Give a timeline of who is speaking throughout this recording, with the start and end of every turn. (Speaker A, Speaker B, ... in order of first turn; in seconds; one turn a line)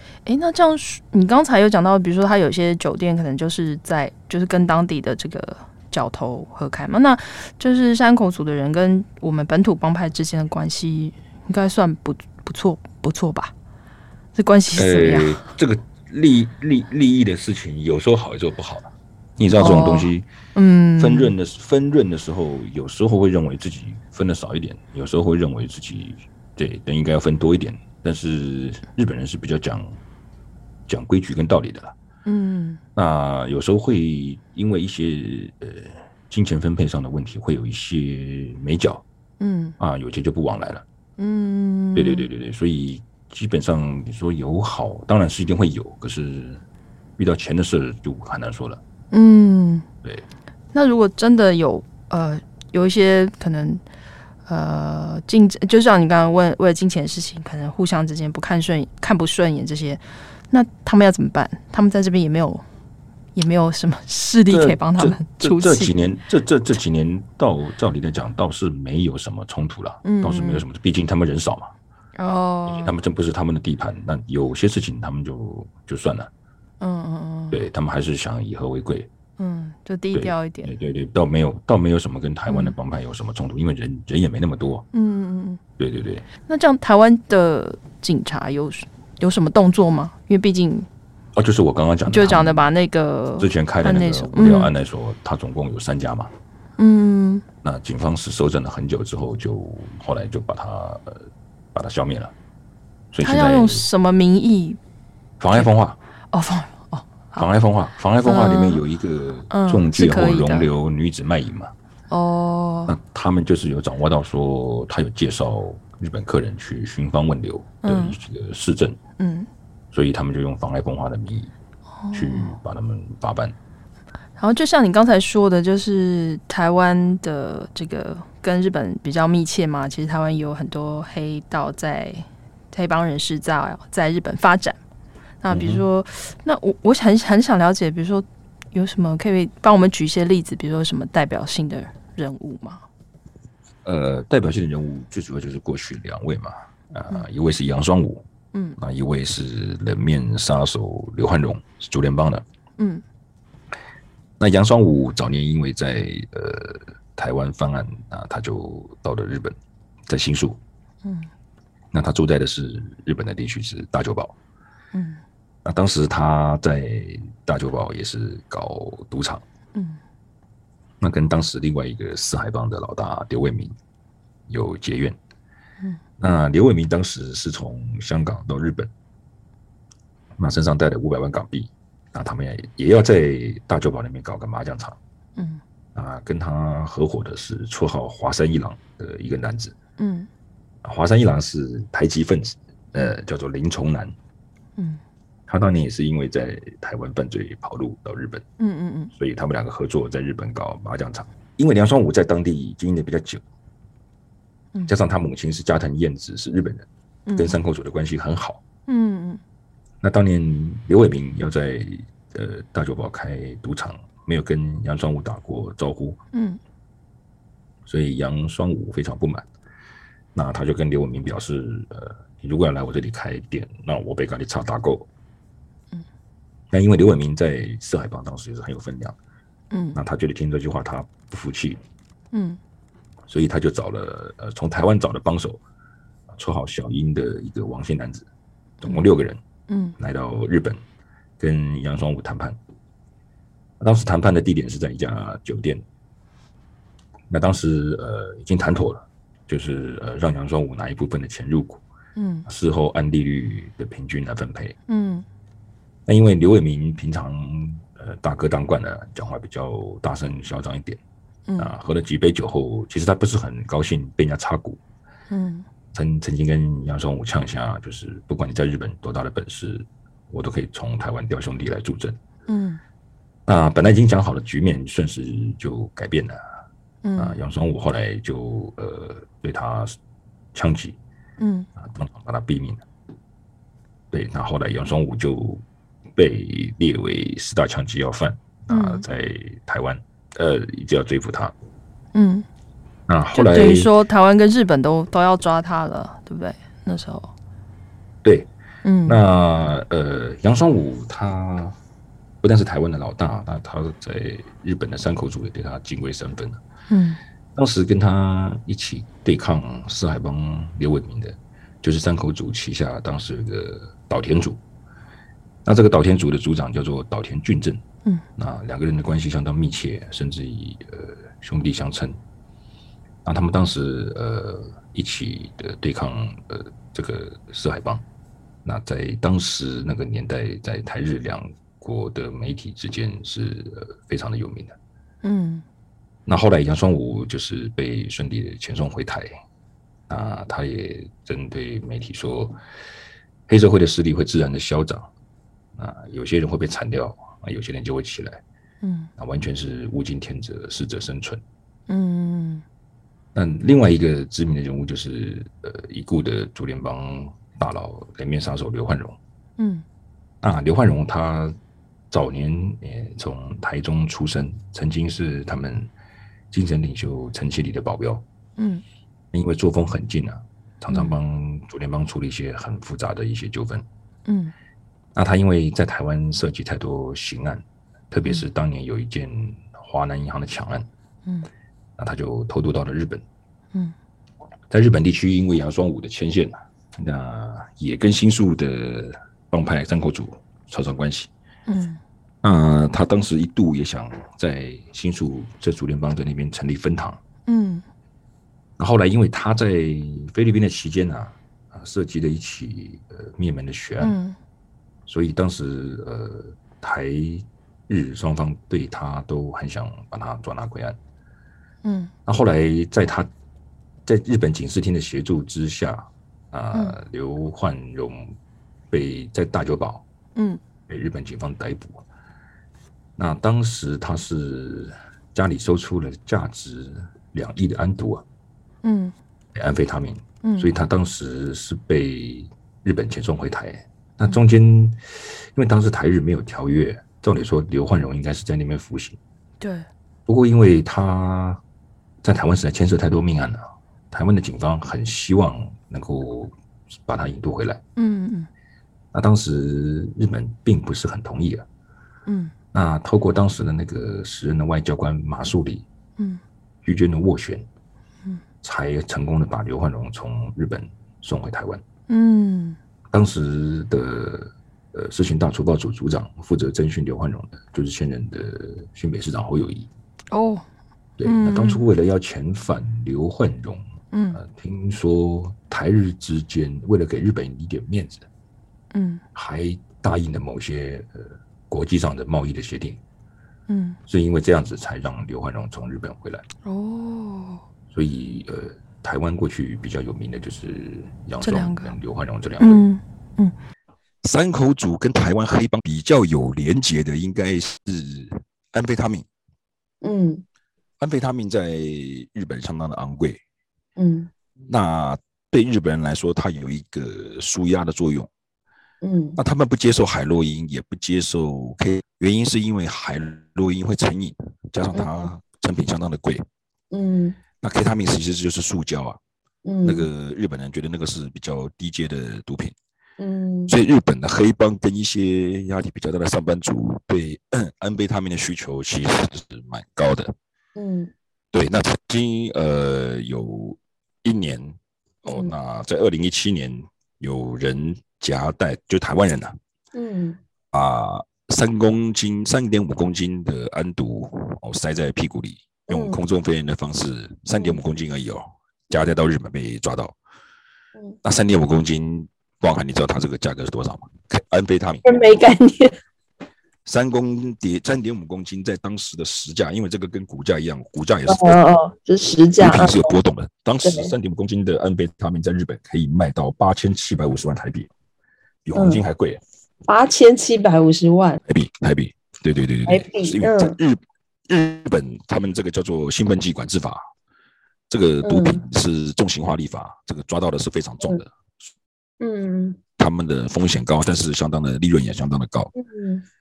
Speaker A: 0.3-13.5
Speaker A: 14.3-15.5
Speaker B: 14.8-20.3
Speaker A: 19.6-21.3
Speaker B: 21.0-30.0
Speaker B: 30.9-31.9
Speaker A: 32.2-32.8
Speaker B: 33.0-39.0
Speaker A: 39.4-39.8
Speaker B: 39.8-40.9
Speaker A: 41.2-42.3
Speaker B: 42.0-46.6
Speaker B: 47.2-48.8
Speaker A: 49.1-49.9
Speaker A: 50.7-53.8
Speaker A: 54.5-62.6
Speaker A: 63.4-66.0
Speaker B: 64.5-71.7
Speaker A: 70.0-70.7
Speaker A: 72.2-72.9
Speaker B: 72.7-76.3
Speaker A: 76.8-77.6
Speaker B: 77.5-79.1
Speaker A: 79.4-80.7
Speaker B: 80.1-84.9
Speaker A: 82.5-82.8
Speaker A: 84.9-85.6
Speaker B: 85.8-86.3
Speaker A: 86.4-90.9
Speaker B: 91.3-92.7
Speaker A: 92.1-94.7
Speaker B: 93.4-96.3
Speaker A: 96.8-97.5
Speaker B: 97.6-102.3
Speaker B: 103.1-103.8
Speaker A: 103.2-104.8
Speaker B: 105.4-106.0
Speaker A: 106.3-107.5
Speaker B: 107.4-111.7
Speaker A: 108.2-108.8
Speaker A: 109.5-110.7
Speaker A: 112.1-113.0
Speaker B: 112.9-119.0
Speaker A: 117.8-118.2
Speaker A: 119.2-119.5
Speaker B: 119.9-121.5
Speaker A: 122.0-122.5
Speaker B: 122.1-123.5
Speaker A: 124.4-134.8
Speaker A: 135.4-142.8
Speaker B: 135.5-135.8
Speaker B: 143.8-148.3
Speaker A: 148.5-148.8
Speaker B: 148.8-152.4
Speaker A: 152.8-153.0
Speaker B: 154.4-159.6
Speaker B: 160.1-160.6
Speaker A: 161.1-161.3
Speaker B: 161.9-164.3
Speaker A: 164.9-165.2
Speaker B: 165.7-169.4
Speaker A: 169.7-170.0
Speaker B: 171.0-173.8
Speaker B: 174.5-175.2
Speaker B: 176.2-178.9
Speaker B: 180.4-185.0
Speaker A: 185.4-185.6
Speaker B: 185.9-189.8
Speaker A: 190.0-190.3
Speaker B: 190.8-194.2
Speaker B: 195.5-198.4
Speaker A: 198.6-199.1
Speaker B: 199.2-203.4
Speaker B: 204.9-208.6
Speaker A: 207.3-207.6
Speaker A: 208.9-209.4
Speaker B: 210.0-216.2
Speaker A: 216.3-216.6
Speaker B: 217.9-219.5
Speaker B: 220.3-225.1
Speaker B: 226.7-229.2
Speaker A: 229.7-230.0
Speaker B: 229.9-231.8
Speaker A: 232.3-232.6
Speaker B: 233.3-235.6
Speaker B: 236.3-238.3
Speaker B: 238.8-239.4
Speaker A: 239.7-240.0
Speaker B: 240.0-240.8
Speaker B: 241.4-242.6
Speaker B: 243.8-245.8
Speaker B: 247.3-251.8
Speaker A: 252.2-252.5
Speaker B: 252.5-254.8
Speaker A: 254.9-255.3
Speaker B: 256.1-261.0
Speaker B: 261.6-264.8
Speaker A: 265.3-265.7
Speaker B: 265.9-272.2
Speaker A: 272.5-272.8
Speaker B: 273.5-276.4
Speaker A: 277.0-277.4
Speaker B: 277.2-280.0
Speaker B: 280.6-281.0
Speaker A: 281.4-281.7
Speaker B: 281.8-282.9
Speaker B: 284.1-285.6
Speaker B: 286.2-291.5
Speaker A: 288.7-289.1
Speaker A: 292.1-292.5
Speaker B: 293.1-293.9
Speaker A: 293.3-297.3
Speaker B: 298.2-298.5
Speaker A: 298.8-299.2
Speaker B: 299.1-301.8
Speaker B: 302.4-306.6
Speaker A: 306.9-307.2
Speaker B: 307.6-314.6
Speaker B: 315.6-317.8
Speaker B: 318.4-322.2
Speaker B: 323.2-328.0
Speaker B: 328.6-334.8
Speaker A: 335.2-335.6
Speaker B: 336.3-339.3
Speaker B: 340.1-342.6
Speaker B: 343.5-345.1
Speaker B: 345.8-348.4
Speaker A: 348.8-349.1
Speaker B: 349.2-351.4
Speaker A: 351.9-352.6
Speaker B: 353.4-359.2
Speaker A: 359.6-359.9
Speaker B: 360.4-361.6
Speaker B: 362.1-365.9
Speaker B: 366.5-368.2
Speaker A: 368.6-368.8
Speaker B: 369.3-373.9
Speaker A: 370.9-371.2
Speaker A: 374.3-374.5
Speaker B: 375.1-380.9
Speaker B: 382.0-383.2
Speaker B: 384.7-391.3
Speaker A: 391.7-392.0
Speaker B: 392.4-397.2
Speaker A: 397.5-397.9
Speaker B: 398.8-404.2
Speaker A: 404.0-404.4
Speaker B: 405.1-411.0
Speaker A: 411.8-412.1
Speaker B: 412.3-413.3
Speaker B: 414.1-418.4
Speaker B: 418.9-420.1
Speaker A: 420.4-420.6
Speaker B: 420.9-422.0
Speaker B: 423.2-428.2
Speaker A: 428.8-429.1
Speaker B: 429.6-439.2
Speaker A: 430.4-430.7
Speaker A: 439.6-439.9
Speaker B: 440.3-441.6
Speaker B: 442.2-446.5
Speaker B: 447.1-447.8
Speaker A: 448.0-448.5
Speaker B: 449.1-451.7
Speaker A: 452.3-452.5
Speaker B: 452.7-455.9
Speaker B: 456.8-457.7
Speaker B: 458.6-461.8
Speaker A: 462.1-462.8
Speaker B: 463.1-469.9
Speaker A: 470.3-470.6
Speaker B: 471.2-478.3
Speaker A: 471.2-471.9
Speaker A: 474.1-474.4
Speaker A: 478.9-479.2
Speaker B: 479.4-483.0
Speaker A: 483.7-484.0
Speaker B: 484.1-486.4
Speaker A: 486.6-487.6
Speaker B: 487.9-492.9
Speaker A: 491.4-491.9
Speaker A: 492.6-493.6
Speaker B: 494.2-499.3
Speaker C: 500.0-500.4
Speaker B: 501.0-503.4
Speaker C: 504.0-504.3
Speaker B: 504.7-508.3
Speaker C: 509.0-509.4
Speaker B: 509.4-516.5
Speaker C: 516.9-517.4
Speaker B: 517.6-519.2
Speaker C: 519.7-520.1
Speaker B: 519.8-522.8
Speaker C: 523.2-523.7
Speaker B: 523.7-530.3
Speaker C: 530.8-531.1
Speaker B: 531.5-539.6
Speaker C: 539.9-540.4
Speaker B: 540.7-550.1
Speaker C: 545.9-546.2
Speaker B: 551.2-555.1
Speaker C: 555.4-555.9
Speaker B: 556.9-561.6
Speaker C: 561.3-562.9
Speaker A: 561.5-562.4
Speaker B: 562.6-567.9
Speaker C: 563.8-564.1
Speaker B: 568.6-569.4
Speaker C: 568.8-569.0
Speaker C: 569.9-571.4
Speaker B: 571.5-577.0
Speaker C: 572.9-573.7
Speaker B: 577.9-581.7
Speaker C: 578.2-578.6
Speaker C: 582.2-582.8
Speaker B: 583.0-585.7
Speaker C: 585.8-586.2